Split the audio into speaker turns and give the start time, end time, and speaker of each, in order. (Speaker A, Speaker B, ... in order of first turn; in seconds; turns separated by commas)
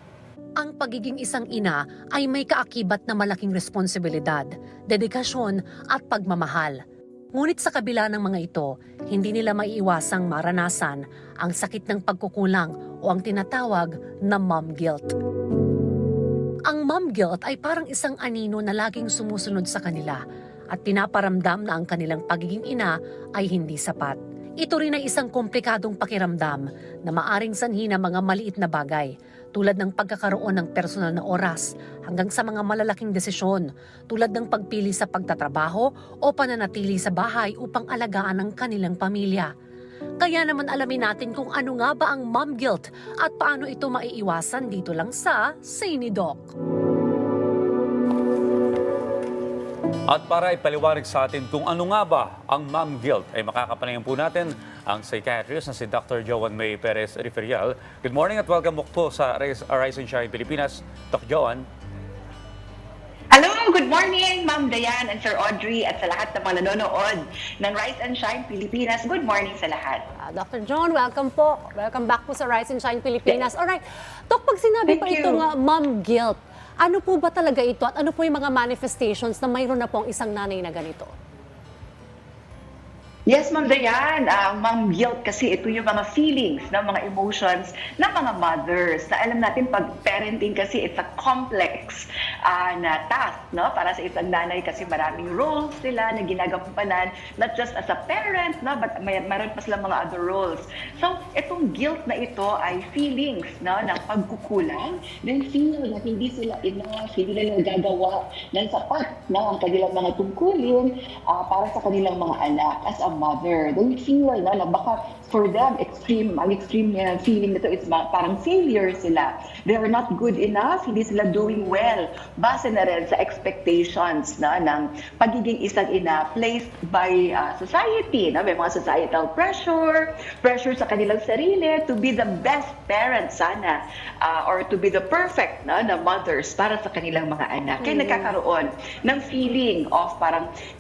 Speaker A: 0.6-6.8, Speaker A: 7.3-15.1, Speaker A: 16.7-20.2, Speaker A: 20.7-39.5, Speaker A: 40.2-46.5, Speaker B: 50.1-61.6, Speaker C: 63.3-70.0, Speaker A: 70.2-81.1, Speaker C: 74.9-75.5, Speaker C: 83.3-140.5, Speaker A: 137.8-138.3